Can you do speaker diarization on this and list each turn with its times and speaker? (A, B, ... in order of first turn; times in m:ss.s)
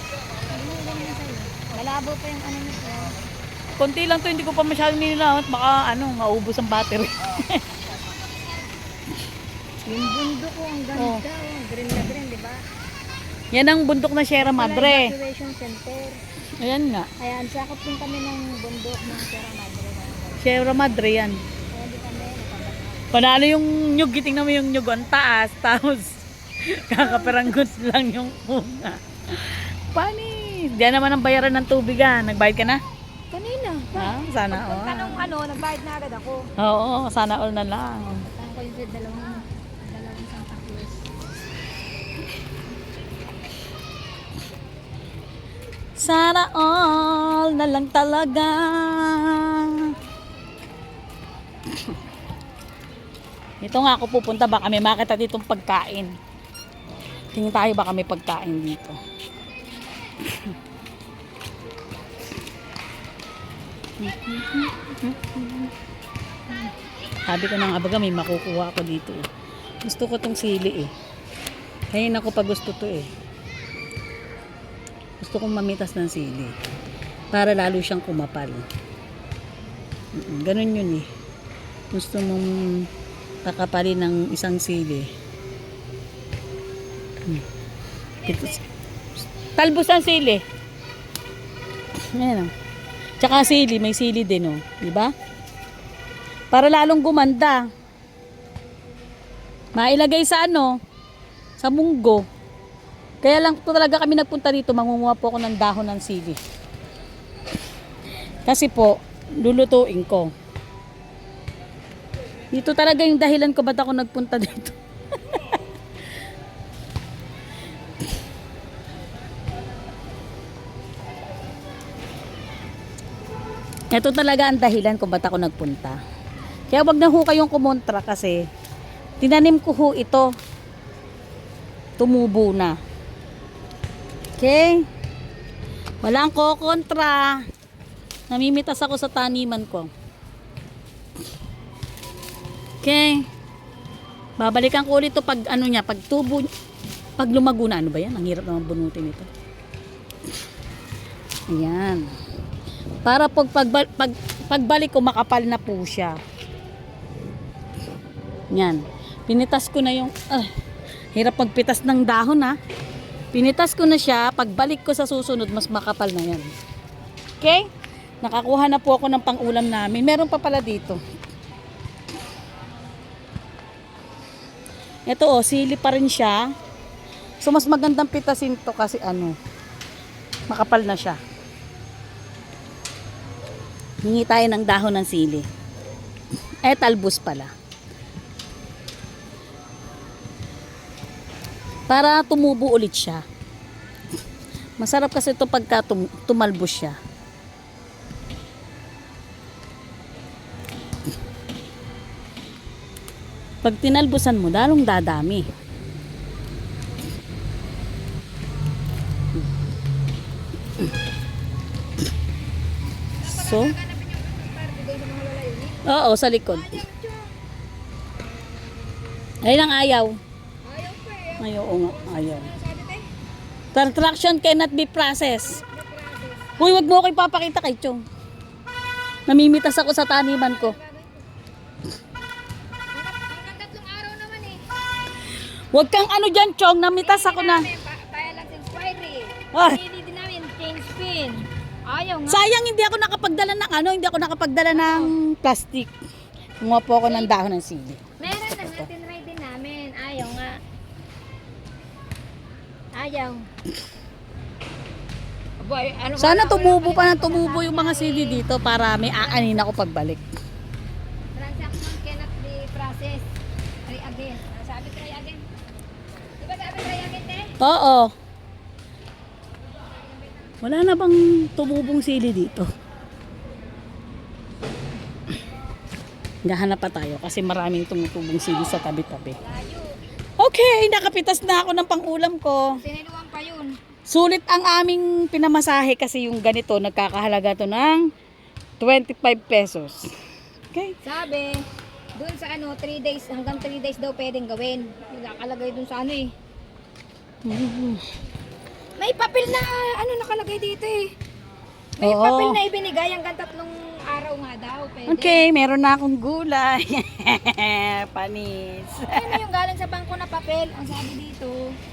0:00.5-0:03.2 A
0:03.8-0:07.6 B
0:09.9-0:12.6 A
0:11.0-0:11.2 B
0:13.5-0:15.1 B
0:14.4-0:16.2 A
0:16.6-0:17.1 B
0:17.2-0:20.9 A
0:20.4-0:21.4 B
0:21.7-0:23.2 A
0:23.1-0:32.8 B
0:27.0-0:27.5 A
0:33.3-0:36.5 A
0:34.0-0:35.3 B
0:36.6-0:38.3 B
0:38.2-0:41.0 A
0:46.0-0:49.9 B
0:53.6-0:56.1 B
0:57.3-0:59.0 B
1:04.0-1:05.7 B
1:07.3-1:09.2 B
1:09.8-1:10.9 B
1:11.9-1:13.1 B
1:15.2-1:16.5 B
1:17.3-1:18.6 B
1:20.1-1:21.0 B
1:21.9-1:22.9 B
1:23.4-1:25.1 B
1:28.2-1:28.6 A
1:28.2-1:28.6 B
1:29.6-1:30.4 B
1:32.1-1:32.5 B
1:33.2-1:35.1 B
1:36.5-1:37.7 B
1:39.8-1:40.8 B
1:41.6-1:42.2 B
1:43.2-1:46.4 B
1:48.5-1:50.3 B
1:52.5-1:55.6 B
2:03.9-2:06.0 B
2:06.7-2:08.5 B
2:09.2-2:10.3 B
2:12.0-2:12.8 B
2:14.4-2:14.9 B
2:16.0-2:17.4 B
2:18.3-2:19.9 B
2:22.8-2:23.2 B
2:24.4-2:26.5 B
2:27.2-2:29.3 B
2:31.5-2:32.1 B
2:33.0-2:36.2 B
2:38.5-2:40.5 B
2:41.2-2:42.6 B
2:43.3-2:46.5 B
2:47.4-2:47.7 B
2:48.2-2:51.0 B
2:55.1-2:56.5 B
2:57.4-2:59.4 B
3:00.5-3:01.2 B
3:04.0-3:05.4 B
3:06.6-3:07.5 B
3:11.9-3:13.2 B
3:14.8-3:17.0 B
3:23.6-3:25.4 B
3:33.2-3:37.4 A
3:33.3-3:33.8 B
3:35.8-3:36.8 B
3:39.4-3:40.2 B
3:40.6-3:43.0 A
3:41.4-3:42.5 B
3:43.7-3:45.6 B
3:45.4-3:46.8 A
3:46.6-3:48.0 B
3:49.3-3:50.8 B
3:50.2-3:51.2 A
3:52.9-3:54.6 A
3:55.7-3:57.7 B
3:57.0-4:02.5 A
3:59.5-3:59.8 B
4:02.3-4:05.9 B
4:04.7-4:05.2 A
4:06.6-4:08.9 B
4:07.0-4:07.4 A
4:08.2-4:10.6 A
4:12.9-4:13.5 A
4:15.6-4:18.4 A
4:16.2-4:20.2 B
4:19.1-4:19.8 A
4:21.4-4:23.3 A
4:23.9-4:25.4 A
4:26.4-4:27.6 A
4:27.6-4:28.1 B
4:30.6-4:32.7 B
4:36.4-4:39.4 B
4:39.4-4:39.9 A
4:40.4-4:42.8 B
4:42.7-4:43.7 A
4:44.1-4:48.1 B
4:48.8-4:50.1 B
4:51.0-4:51.6 A
4:52.2-4:56.3 A
4:57.4-4:58.0 B
4:59.0-5:01.1 A
5:02.0-5:05.5 A
5:02.0-5:02.6 B
5:05.1-5:09.4 B
5:09.1-5:11.8 A